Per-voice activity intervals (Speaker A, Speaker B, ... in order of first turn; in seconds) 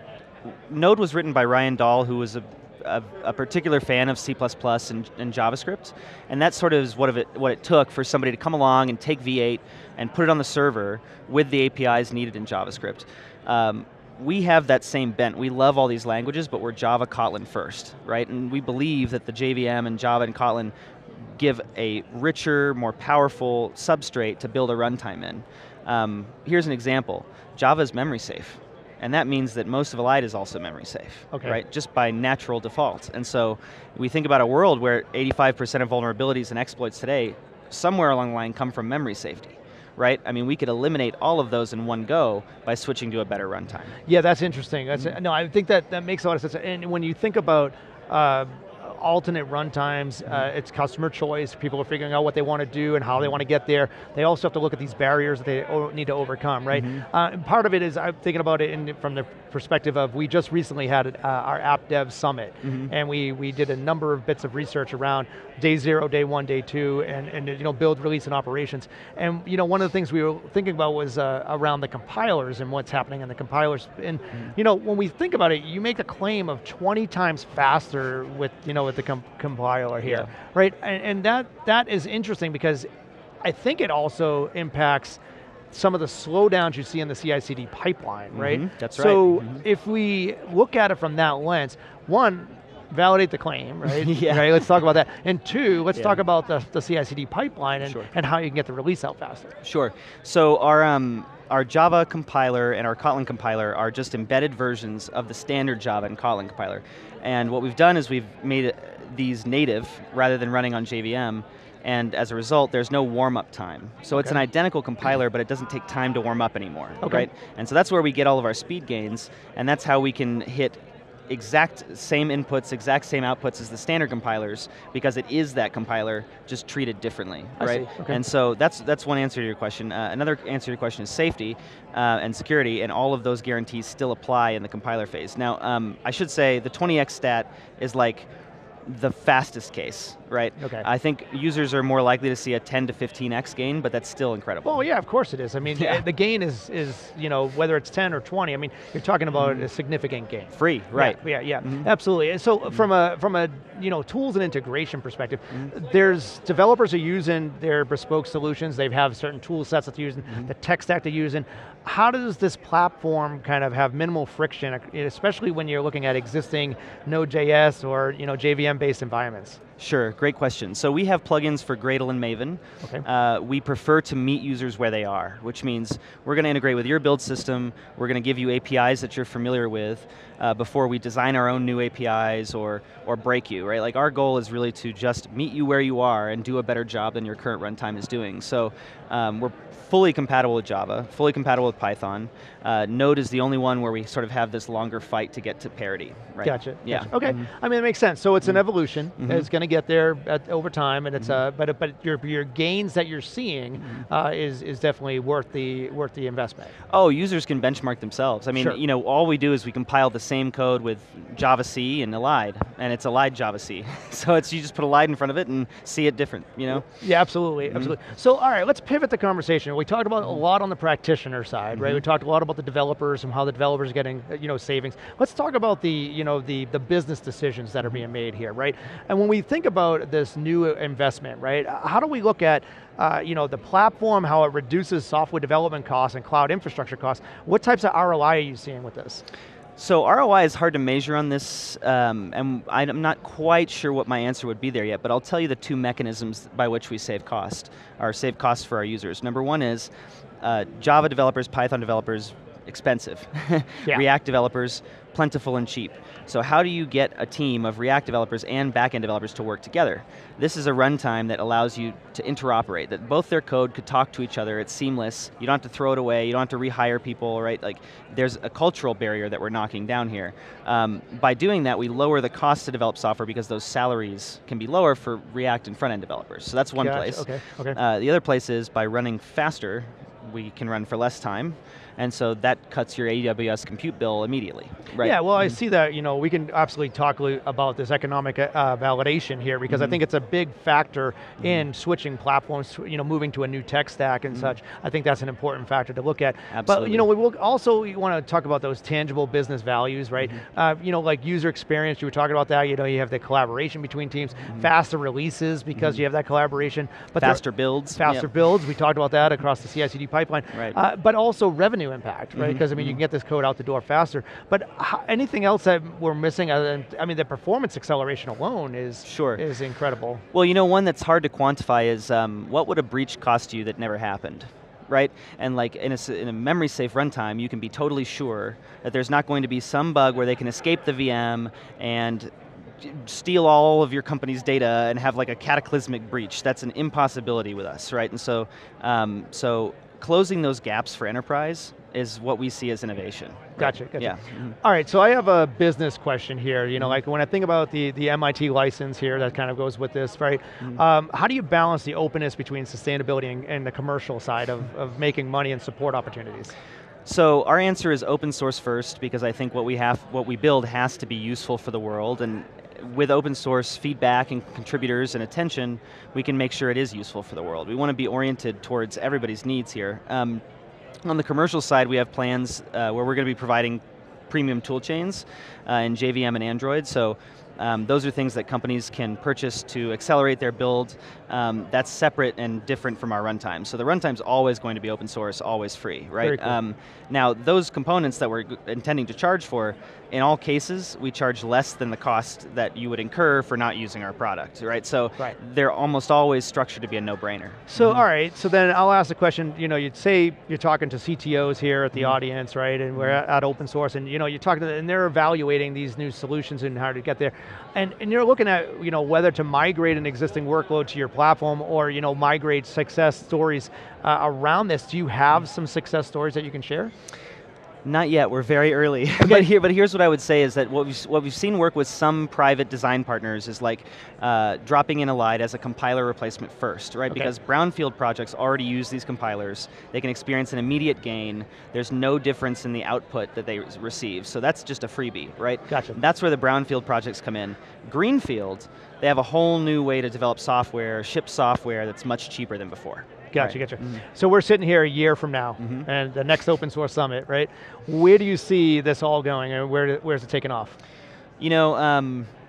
Speaker A: 0.7-43.9, 56.7-57.0, 62.6-62.9, 88.3-89.6, 93.9-94.6, 95.9-96.2, 97.8-98.1, 99.6-120.8, 121.3-138.3, 138.9-144.8, 145.8-146.0, 149.3-149.6, 150.5-151.9, 169.8-197.4, 199.2-199.5, 206.9-216.8, 217.7-217.9, 221.8-222.0, 239.8-249.9, 250.4-285.5, 289.7-290.0, 291.4-291.6, 294.3-294.6, 296.5-297.1, 305.7-306.0, 307.2-308.3, 312.3-313.0, 319.1-319.4, 320.3-344.6, 357.1-370.4, 371.1-398.0, 417.8-444.0, 445.6-445.9, 451.4-452.3
Speaker B: 31.3-31.6, 44.1-82.9, 83.4-85.2, 85.7-99.5, 117.0-117.3, 127.6-128.2, 140.6-140.9, 144.6-169.6, 196.4-206.7, 216.8-239.2, 276.8-277.8, 285.0-307.4, 307.9-320.2, 343.6-356.5, 386.2-386.6, 397.7-416.9, 419.2-419.5, 435.7-436.0, 443.3-450.8